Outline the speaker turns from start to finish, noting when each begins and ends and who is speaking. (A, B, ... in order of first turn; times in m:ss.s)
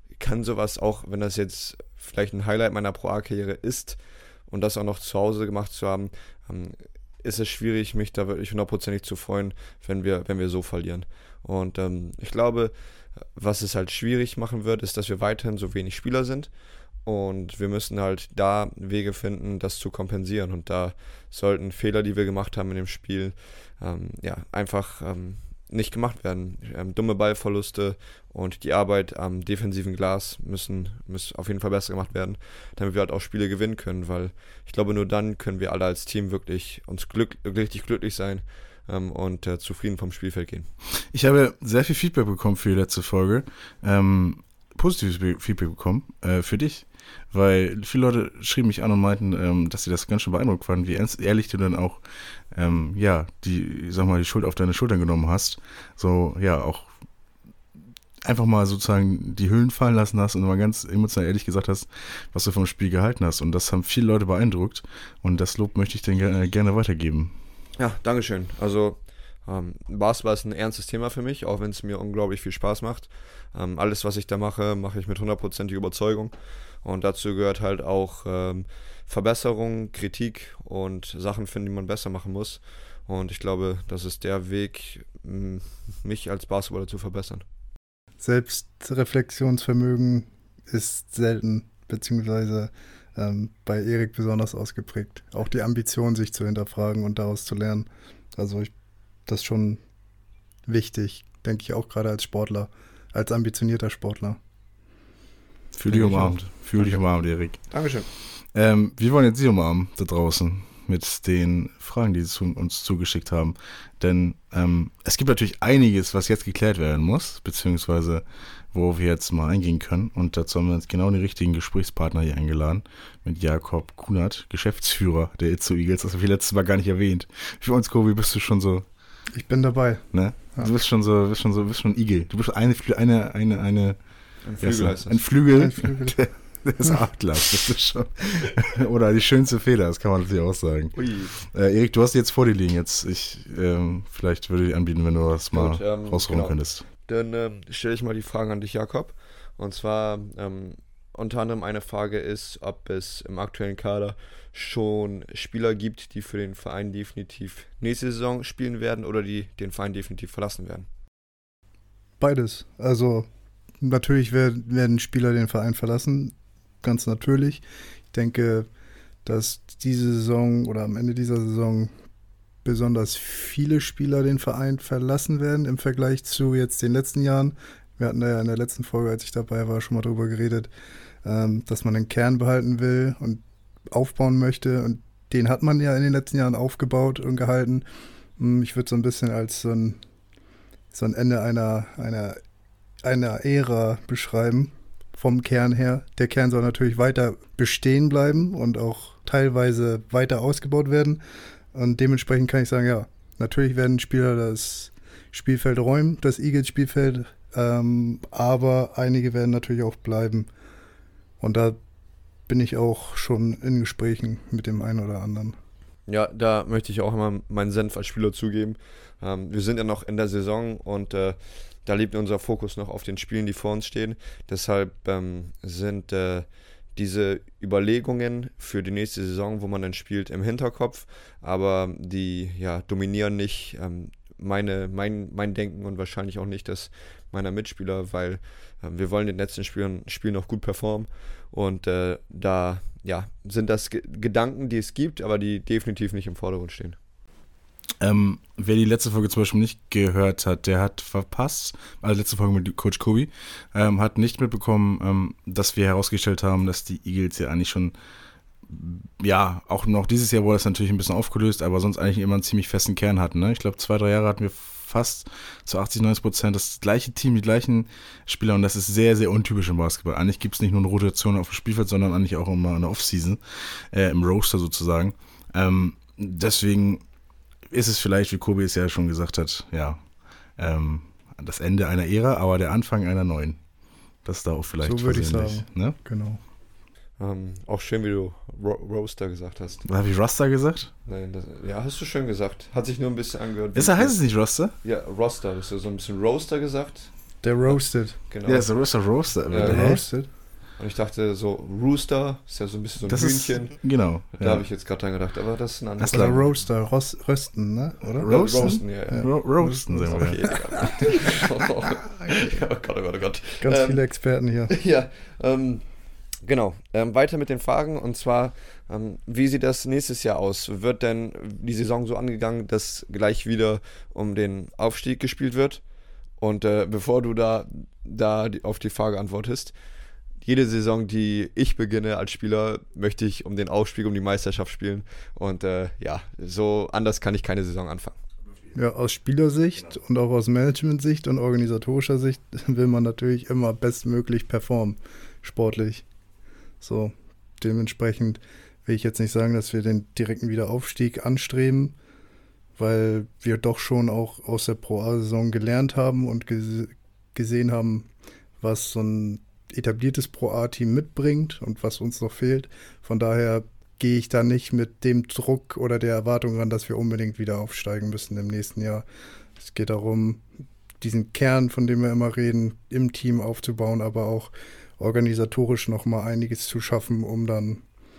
0:00.2-0:12.7 A
0:13.3-0:16.5 A
0:17.0-0:40.7 A
0:41.1-0:52.0 B
0:52.5-0:56.9 B
0:58.2-1:07.3 B
1:07.8-1:27.4 A
1:28.2-1:38.7 C
1:39.2-1:39.8 C
1:40.6-1:44.4 C
1:45.7-1:47.6 B
1:45.9-1:47.0 A
1:47.7-1:48.1 A
1:48.4-2:08.8 B
2:09.3-2:10.7 C
2:10.1-2:14.0 B
2:14.4-2:15.2 A
2:14.6-2:26.8 B
2:15.5-2:16.2 C
2:20.9-2:21.3 A
2:25.5-2:40.9 A
2:42.2-2:43.3 C
2:43.8-2:48.7 C
2:49.2-2:51.9 C
2:52.6-3:00.7 C
3:01.2-3:07.8 C
3:08.4-3:10.0 C
3:10.9-3:12.4 C
3:13.0-3:21.2 C
3:21.7-3:30.5 C
3:31.4-3:31.8 C
3:32.5-3:35.6 C
3:36.1-4:07.0 A
4:08.0-4:17.9 B
4:18.6-4:37.0 B
4:37.7-4:40.0 B
4:40.6-4:43.6 B
4:44.2-4:46.0 B
4:44.8-4:46.4 C
4:47.2-4:49.8 A
4:49.8-4:50.9 B
4:51.0-4:57.1 A
4:53.7-4:54.7 B
4:57.4-4:58.2 C
4:58.3-4:58.9 A
4:58.4-5:00.0 B
4:59.5-5:00.1 A
4:59.6-5:00.3 C
5:00.8-5:06.5 A
5:03.0-5:04.6 B
5:06.0-5:06.4 B
5:06.1-5:11.1 C
5:08.2-5:09.4 A
5:08.2-5:10.6 B
5:10.1-5:14.0 A
5:13.6-5:14.7 C
5:14.7-5:15.8 A
5:16.4-5:25.8 A
5:26.4-5:29.7 A
5:30.4-5:38.2 A
5:38.7-5:46.0 C
5:46.8-5:51.9 C
5:52.8-5:58.1 C
5:58.6-6:09.0 C
6:09.6-6:10.4 C
6:11.0-6:17.8 C